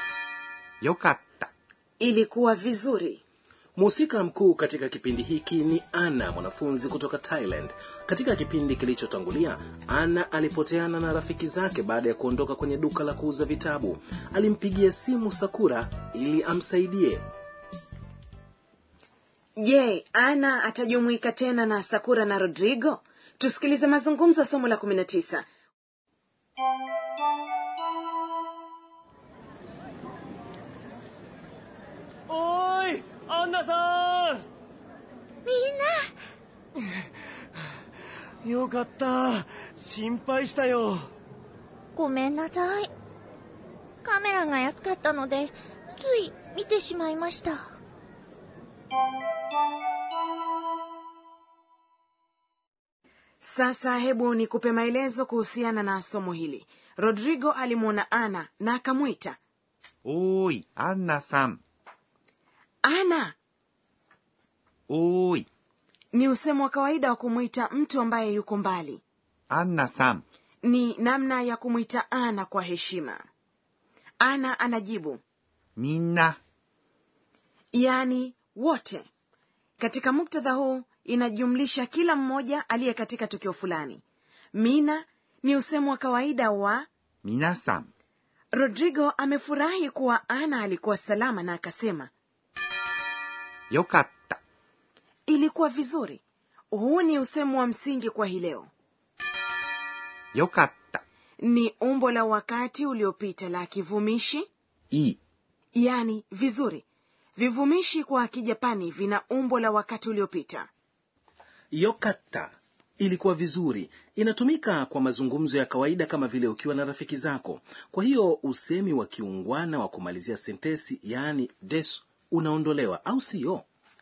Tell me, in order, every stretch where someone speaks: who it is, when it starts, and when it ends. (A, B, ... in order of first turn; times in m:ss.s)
0:00.8-0:01.5 A
0:02.0-0:03.2 B
0:03.8-0:17.2 C
0:19.6-0:25.4 B
0:32.3-0:34.4 D
0:35.4-0:36.1 E
0:38.4-0:41.1 D
0:41.9-0:42.9 E
0:44.0-0:47.6 E
0:53.4-0:59.4 B
1:00.0-1:01.6 A
1:02.8-1:03.3 B
1:04.9-1:05.5 A
1:06.1-1:09.0 B
1:09.5-1:10.2 A
1:10.6-1:13.2 B
1:14.2-1:15.2 B
1:15.8-1:16.4 A
1:17.7-1:19.0 B
1:19.8-1:24.0 B
1:24.5-1:26.9 B
1:27.2-1:27.9 A
1:28.5-1:32.1 B
1:33.7-1:34.4 A
1:35.3-1:36.2 B
1:36.7-1:38.7 B
1:40.3-1:41.0 A
1:41.4-1:44.5 B
1:44.9-1:45.2 A
1:45.7-1:46.8 B
1:47.4-1:50.7 B
1:51.7-2:03.6 C